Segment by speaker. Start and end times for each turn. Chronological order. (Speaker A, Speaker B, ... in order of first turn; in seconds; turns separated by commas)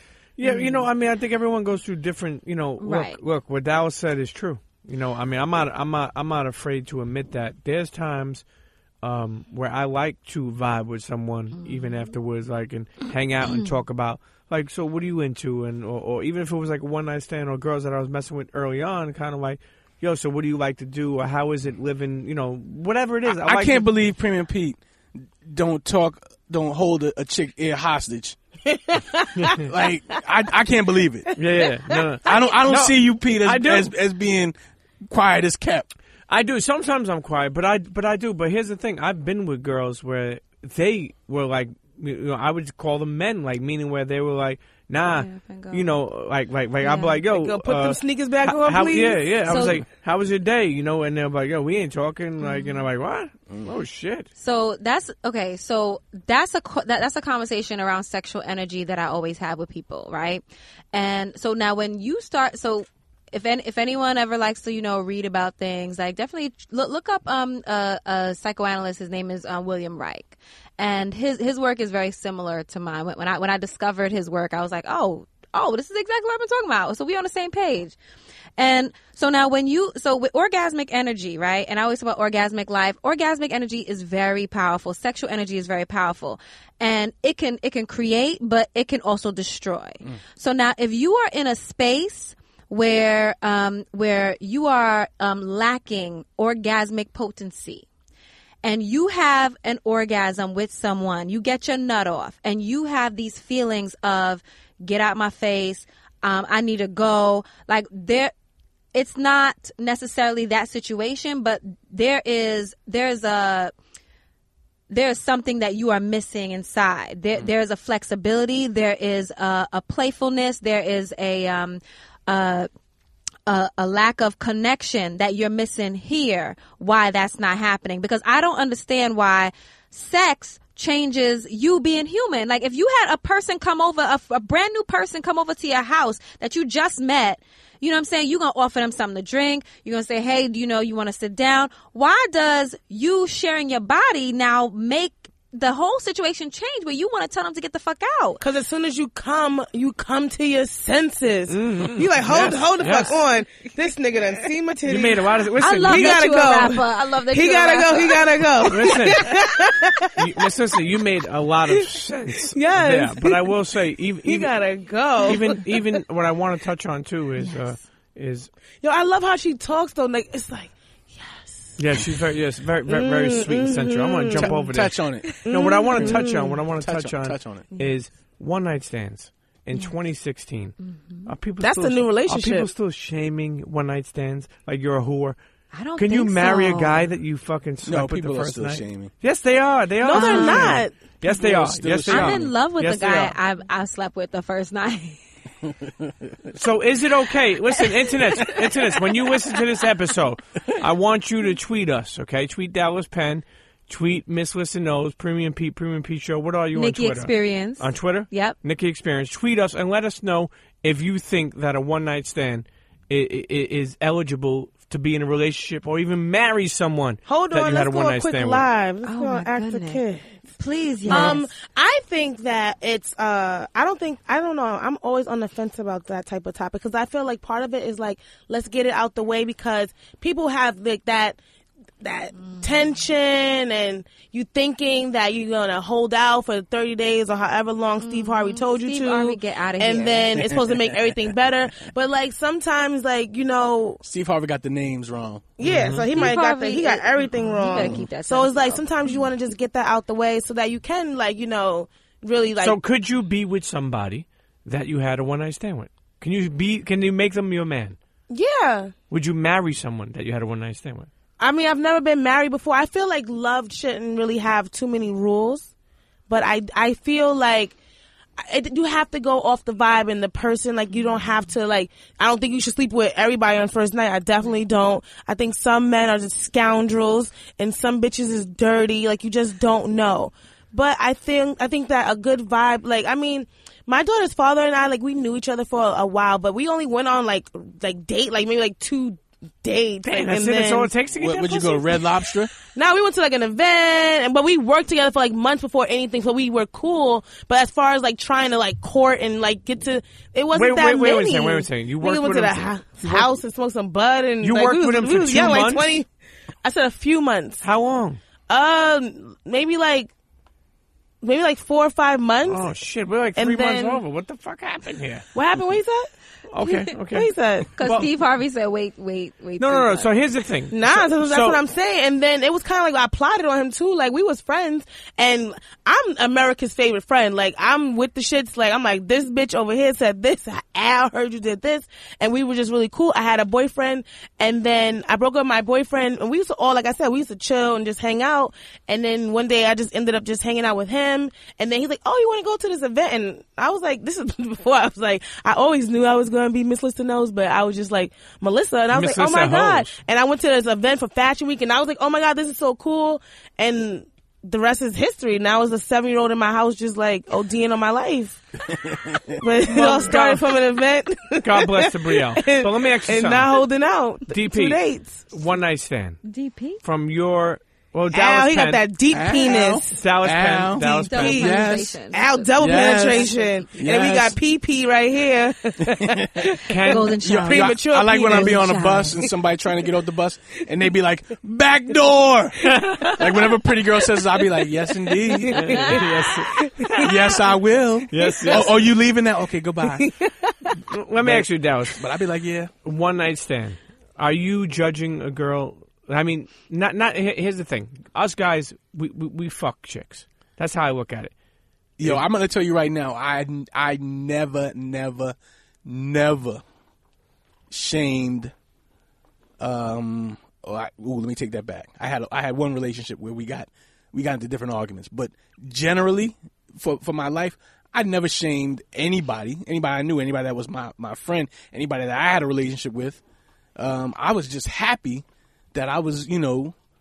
Speaker A: 0.4-8.4, Speaker B: 0.4-0.9, Speaker B: 2.8-3.2, Speaker A: 9.0-23.9, Speaker B: 11.6-12.1, Speaker C: 23.2-28.4, Speaker D: 28.7-29.6, Speaker C: 29.6-31.3, Speaker D: 31.3-31.9, Speaker A: 31.4-33.9, Speaker C: 32.2-34.5, Speaker C: 35.0-35.9, Speaker A: 36.3-54.3, Speaker B: 45.0-45.9, Speaker B: 46.8-47.2, Speaker D: 47.2-49.7, Speaker B: 49.5-49.8, Speaker B: 52.4-52.9, Speaker B: 54.4-78.0, Speaker B: 78.6-97.8, Speaker B: 98.6-108.3, Speaker B: 108.9-113.7, Speaker B: 114.9-122.7, Speaker B: 123.5-148.4, Speaker D: 148.4-160.5, Speaker A: 151.5-153.2, Speaker A: 154.8-156.2, Speaker B: 155.6-158.3, Speaker A: 158.6-159.3, Speaker A: 160.2-164.5, Speaker D: 162.5-163.6, Speaker D: 164.2-165.9, Speaker A: 165.2-168.5, Speaker B: 167.4-167.7, Speaker D: 168.8-172.0, Speaker A: 171.8-185.4, Speaker D: 172.9-174.6, Speaker C: 174.3-175.3, Speaker D: 175.4-176.6, Speaker C: 175.9-177.6, Speaker B: 180.8-181.3, Speaker D: 181.6-182.7, Speaker B: 185.7-187.0, Speaker A: 186.0-193.3, Speaker C: 187.8-189.1, Speaker D: 190.0-190.9, Speaker B: 190.1-190.8, Speaker C: 191.2-192.5, Speaker B: 192.1-195.2, Speaker A: 196.5-218.7, Speaker B: 206.7-208.6, Speaker D: 217.3-220.3, Speaker B: 219.0-220.0, Speaker B: 220.6-221.4, Speaker D: 221.1-231.4, Speaker A: 221.1-221.4, Speaker D: 232.0-244.0, Speaker B: 238.0-240.5, Speaker C: 240.5-241.2, Speaker C: 244.0-245.5, Speaker D: 245.6-252.8, Speaker A: 245.6-246.1, Speaker B: 246.1-248.8, Speaker A: 252.6-258.0, Speaker D: 258.3-258.9, Speaker A: 259.1-261.1, Speaker D: 261.4-265.7, Speaker D: 266.3-267.8, Speaker D: 268.4-290.9, Speaker A: 290.0-292.0, Speaker C: 291.1-292.5, Speaker D: 292.7-306.1, Speaker A: 300.5-303.4, Speaker A: 304.4-305.9, Speaker D: 306.6-307.6, Speaker A: 307.6-308.2, Speaker D: 308.5-310.1, Speaker D: 311.2-312.6, Speaker A: 312.5-315.2, Speaker D: 313.4-314.0, Speaker D: 315.3-316.1, Speaker A: 316.5-318.1, Speaker D: 316.6-317.7, Speaker B: 317.8-320.1, Speaker A: 319.6-321.6, Speaker D: 320.7-358.4, Speaker A: 348.9-349.9, Speaker C: 358.7-359.3, Speaker D: 359.4-365.3, Speaker A: 359.6-360.5, Speaker A: 361.4-363.6, Speaker A: 364.3-366.2, Speaker B: 366.2-366.8, Speaker A: 366.8-368.8, Speaker D: 368.1-370.0, Speaker C: 369.1-371.9, Speaker A: 369.9-371.5, Speaker B: 371.1-372.5, Speaker D: 371.1-378.9, Speaker C: 372.6-374.4, Speaker B: 373.1-373.5, Speaker C: 375.8-376.5, Speaker A: 376.7-377.1, Speaker B: 376.8-379.1, Speaker C: 377.2-386.0, Speaker A: 382.6-383.3, Speaker D: 385.1-387.2, Speaker A: 385.5-387.3, Speaker C: 387.0-390.1, Speaker A: 388.1-388.8, Speaker D: 388.2-388.7, Speaker D: 389.9-390.7, Speaker A: 390.9-392.0, Speaker C: 391.2-392.7, Speaker A: 392.8-401.3, Speaker C: 402.0-406.6, Speaker C: 407.7-408.5, Speaker C: 409.6-423.2, Speaker C: 423.8-426.7